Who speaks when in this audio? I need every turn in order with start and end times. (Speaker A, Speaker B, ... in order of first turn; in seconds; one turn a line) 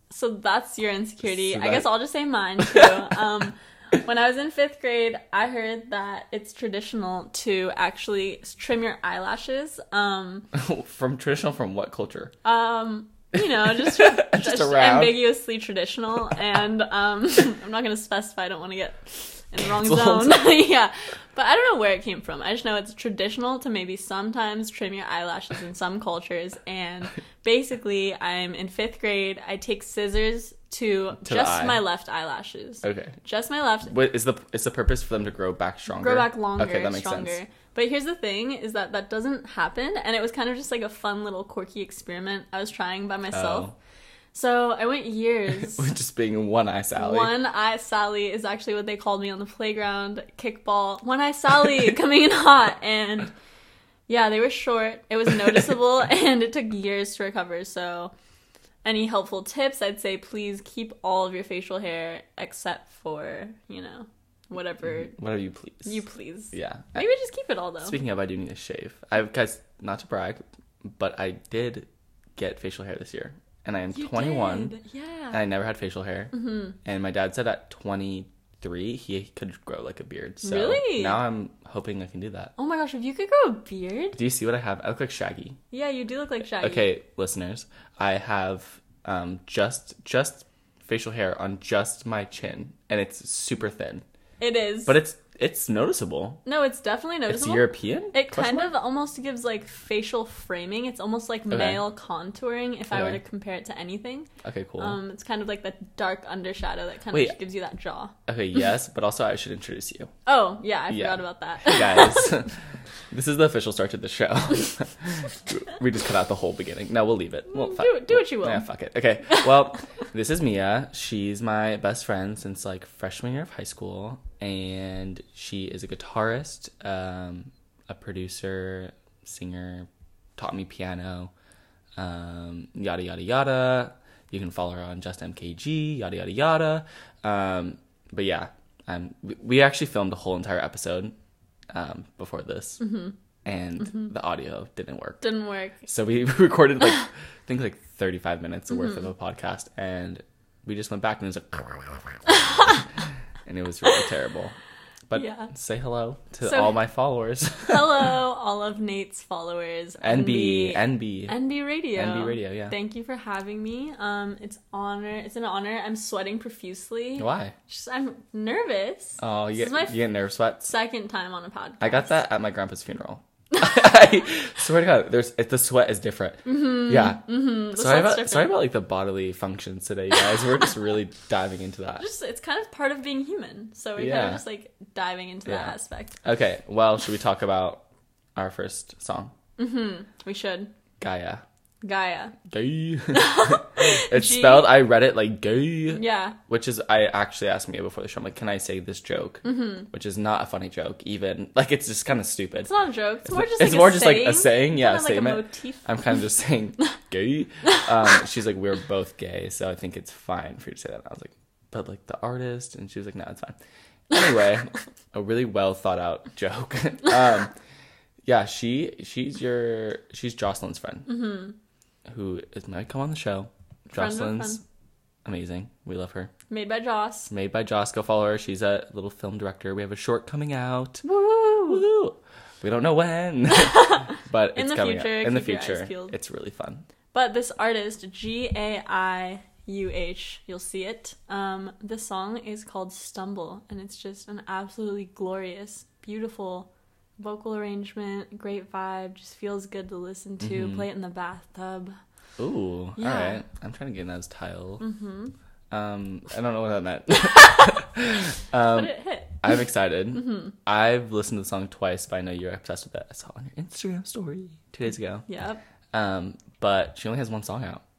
Speaker A: 0.1-10.5
Speaker B: 1.2-1.9
Speaker B: 10.5-12.3
Speaker A: 12.4-33.9
Speaker B: 13.5-15.2
Speaker B: 19.6-20.5
Speaker B: 31.2-31.8
Speaker B: 32.8-33.2
Speaker B: 33.9-37.4
Speaker A: 35.9-43.7
Speaker B: 43.3-43.8
Speaker A: 44.3-45.9
Speaker B: 45.6-47.4
Speaker A: 47.0-53.3
Speaker A: 54.1-58.1
Speaker A: 58.8-65.2
Speaker B: 65.1-66.0
Speaker A: 65.8-68.0
Speaker B: 66.5-67.0
Speaker B: 67.8-74.8
Speaker A: 73.9-75.4
Speaker B: 75.3-76.3
Speaker A: 76.3-76.8
Speaker B: 76.8-82.5
Speaker A: 80.4-81.2
Speaker A: 82.6-84.2
Speaker B: 84.2-85.6
Speaker A: 85.7-86.9
Speaker B: 86.6-94.0
Speaker A: 94.4-95.0
Speaker B: 94.9-96.4
Speaker A: 96.4-108.1
Speaker B: 97.3-98.8
Speaker B: 101.5-101.8
Speaker B: 102.9-103.2
Speaker B: 104.4-105.0
Speaker B: 108.3-110.1
Speaker A: 110.2-112.4
Speaker B: 110.9-112.5
Speaker B: 113.1-131.3
Speaker A: 117.5-118.7
Speaker B: 132.0-141.1
Speaker B: 141.7-142.9
Speaker A: 142.8-143.1
Speaker B: 143.4-145.2
Speaker A: 145.2-145.8
Speaker B: 145.8-152.2
Speaker B: 153.4-154.6
Speaker B: 155.1-158.0
Speaker A: 155.1-155.5
Speaker A: 156.4-156.8
Speaker A: 157.7-170.1
Speaker B: 160.0-161.4
Speaker B: 161.9-162.7
Speaker B: 167.2-167.5
Speaker B: 169.2-170.7
Speaker A: 170.6-172.2
Speaker B: 171.8-182.1
Speaker A: 176.4-178.7
Speaker A: 182.0-186.2
Speaker B: 183.9-184.4
Speaker B: 185.4-187.8
Speaker B: 188.4-189.3
Speaker A: 189.6-190.7
Speaker B: 191.0-191.4
Speaker A: 191.8-192.4
Speaker B: 192.5-202.7
Speaker A: 193.1-194.8
Speaker A: 195.9-196.4
Speaker A: 199.4-199.9
Speaker A: 202.6-205.9
Speaker B: 203.3-213.6
Speaker B: 214.1-217.5
Speaker B: 218.2-221.3
Speaker A: 221.1-221.6
Speaker B: 222.1-224.6
Speaker A: 223.9-224.6
Speaker B: 225.2-226.3
Speaker A: 226.5-227.3
Speaker B: 227.3-236.8
Speaker A: 231.1-231.8
Speaker A: 233.8-236.1
Speaker A: 237.1-252.0
Speaker B: 250.4-250.8
Speaker B: 252.4-254.9
Speaker A: 253.0-253.4
Speaker A: 254.8-255.3
Speaker B: 255.7-265.2
Speaker A: 258.7-259.6
Speaker A: 260.2-260.5
Speaker A: 265.3-265.6
Speaker B: 265.9-267.8